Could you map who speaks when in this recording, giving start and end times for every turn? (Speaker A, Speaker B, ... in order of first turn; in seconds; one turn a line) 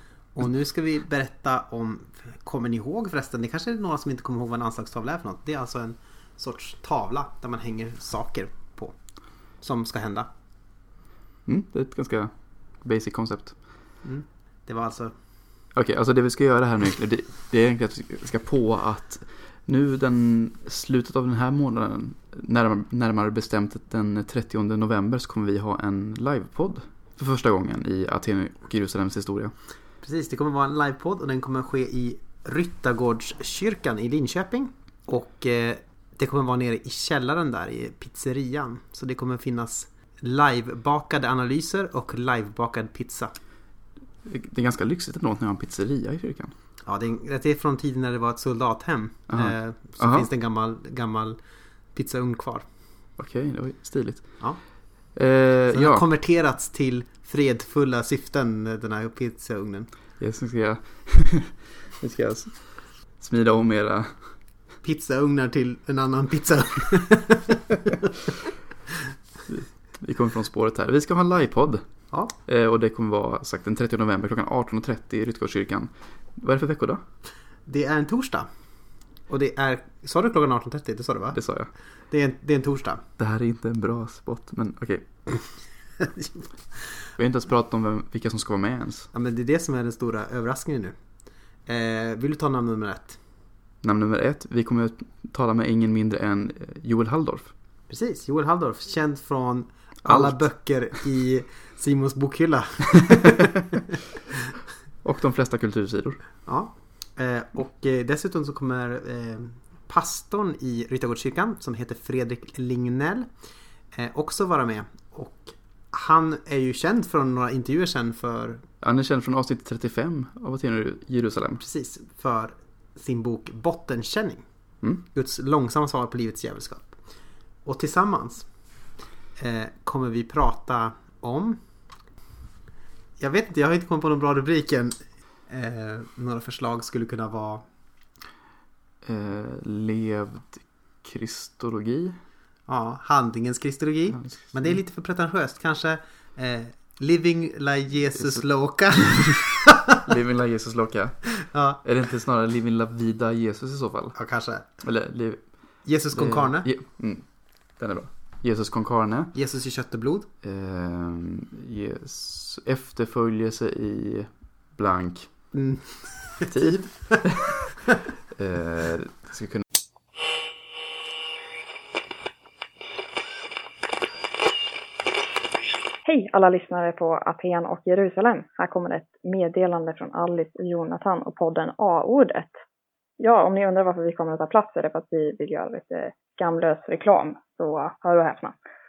Speaker A: 0.3-10.3
Speaker B: 11.4-13.7
Speaker A: 14.0-15.2
Speaker B: 15.7-29.5
Speaker A: 30.0-43.4
Speaker B: 44.2-46.5
Speaker A: 46.8-52.7
Speaker B: 49.3-50.3
Speaker B: 53.1-56.0
Speaker A: 55.7-59.9
Speaker B: 60.2-64.5
Speaker A: 64.8-67.5
Speaker B: 69.5-77.0
Speaker A: 77.7-83.0
Speaker B: 81.3-81.7
Speaker B: 83.2-85.7
Speaker B: 87.1-89.1
Speaker A: 89.1-93.2
Speaker B: 93.8-97.5
Speaker A: 97.9-103.4
Speaker B: 100.0-100.8
Speaker B: 105.0-106.2
Speaker A: 106.5-113.3
Speaker A: 113.9-118.6
Speaker B: 118.8-121.6
Speaker A: 121.6-128.8
Speaker A: 129.4-132.0
Speaker A: 133.2-137.7
Speaker B: 139.0-142.2
Speaker A: 142.7-149.7
Speaker B: 144.1-144.8
Speaker B: 150.0-159.6
Speaker A: 151.5-151.8
Speaker A: 154.1-154.8
Speaker A: 155.8-156.8
Speaker A: 159.3-160.3
Speaker B: 160.4-165.7
Speaker A: 165.5-166.5
Speaker B: 166.5-167.6
Speaker B: 168.3-169.6
Speaker C: 176.0-182.6
Speaker C: 183.2-188.6